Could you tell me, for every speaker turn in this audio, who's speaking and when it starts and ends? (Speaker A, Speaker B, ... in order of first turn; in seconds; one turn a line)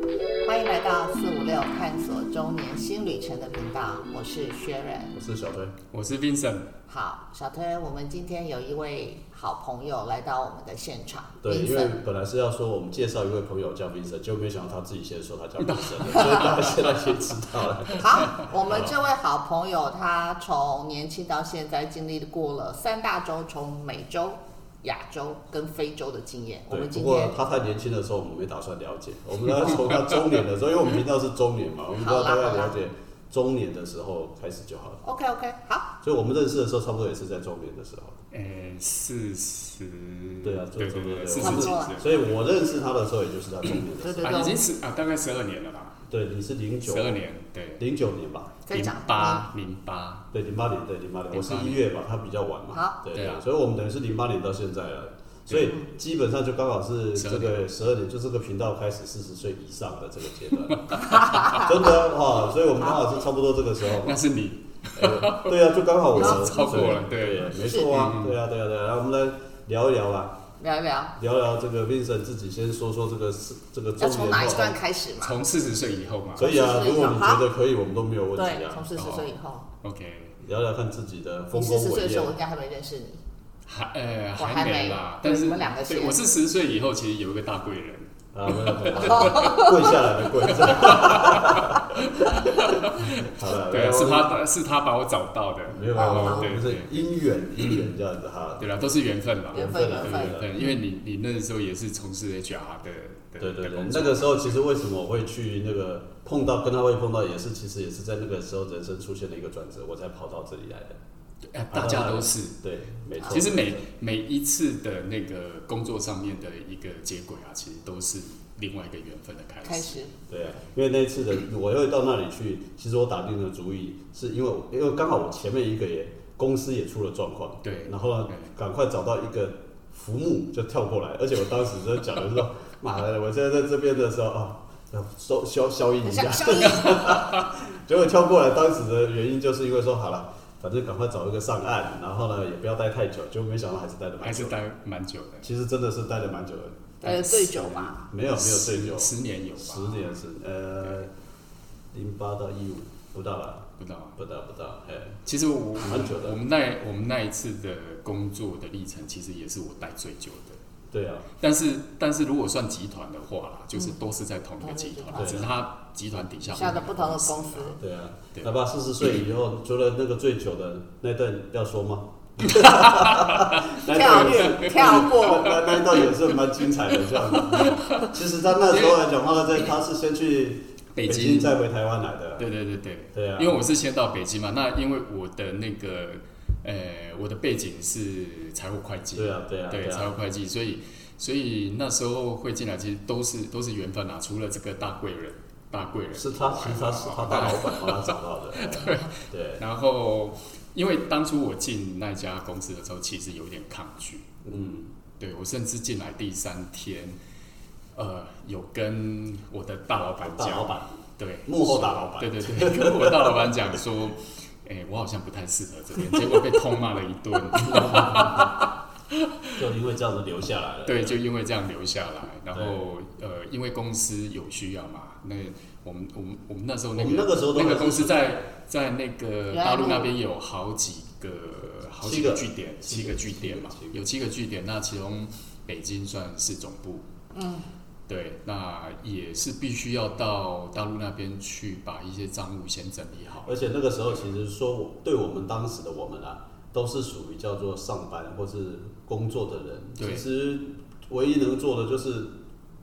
Speaker A: 0.4-5.2
Speaker B: 5.2-5.7
Speaker C: 5.9-6.7
Speaker A: 6.9-12.0
Speaker B: 11.4-18.9
Speaker C: 15.6-16.9
Speaker A: 16.1-16.4
Speaker C: 17.9-18.5
Speaker A: 17.9-27.4
Speaker B: 26.7-35.0
Speaker A: 32.0-32.7
Speaker A: 35.0-35.9
Speaker B: 36.0-38.2
Speaker C: 38.3-42.4
Speaker B: 40.4-44.5
Speaker A: 41.4-42.2
Speaker C: 43.7-46.0
Speaker A: 44.0-44.6
Speaker B: 46.1-47.2
Speaker C: 46.8-47.8
Speaker B: 47.8-48.6
Speaker A: 48.6-49.5
Speaker C: 48.7-50.3
Speaker B: 50.3-64.2
Speaker C: 51.3-51.8
Speaker A: 52.7-53.0
Speaker C: 53.1-53.4
Speaker C: 57.2-57.7
Speaker C: 60.7-61.6
Speaker A: 61.1-61.7
Speaker C: 64.0-65.6
Speaker B: 65.0-70.4
Speaker C: 66.1-68.4
Speaker A: 66.2-67.0
Speaker A: 67.5-68.1
Speaker A: 70.6-71.2
Speaker B: 71.2-74.8
Speaker A: 74.0-75.4
Speaker C: 75.2-76.5
Speaker A: 76.4-77.5
Speaker B: 76.4-78.9
Speaker A: 78.4-79.7
Speaker C: 78.9-79.3
Speaker C: 79.8-80.4
Speaker B: 80.4-82.3
Speaker A: 81.5-83.2
Speaker C: 83.7-89.9
Speaker A: 84.4-86.2
Speaker B: 88.3-94.3
Speaker A: 89.1-89.9
Speaker C: 90.4-97.0
Speaker B: 95.7-98.7
Speaker A: 96.0-96.5
Speaker C: 98.6-104.6
Speaker B: 99.5-100.5
Speaker A: 99.5-100.7
Speaker B: 103.4-111.0
Speaker C: 111.5-112.6
Speaker B: 111.7-113.8
Speaker C: 113.2-120.0
Speaker A: 119.6-120.1
Speaker B: 120.3-144.6
Speaker C: 127.6-128.5
Speaker A: 136.1-137.2
Speaker C: 136.7-137.5
Speaker C: 144.2-145.5
Speaker B: 145.4-151.1
Speaker A: 147.0-148.1
Speaker C: 147.1-147.4
Speaker C: 148.3-150.1
Speaker B: 151.9-155.2
Speaker C: 153.8-154.2
Speaker C: 155.2-160.6
Speaker B: 155.8-156.4
Speaker B: 160.9-161.3
Speaker C: 161.4-167.8
Speaker A: 164.6-165.5
Speaker B: 165.2-165.5
Speaker A: 166.5-167.8
Speaker B: 167.8-182.4
Speaker C: 172.4-178.1
Speaker A: 173.9-175.6
Speaker C: 178.7-179.0
Speaker C: 180.9-181.6
Speaker C: 182.4-204.3
Speaker B: 183.1-183.6
Speaker B: 189.2-190.1
Speaker B: 196.1-199.6
Speaker B: 204.4-204.9
Speaker C: 205.2-207.2
Speaker C: 207.9-219.6
Speaker B: 210.1-213.6
Speaker B: 217.6-218.5
Speaker B: 219.6-221.2
Speaker C: 220.8-237.1
Speaker B: 226.9-228.3
Speaker A: 229.5-230.1
Speaker B: 232.0-234.0
Speaker A: 237.3-237.7
Speaker C: 238.1-243.6
Speaker B: 243.5-252.3
Speaker C: 250.0-250.3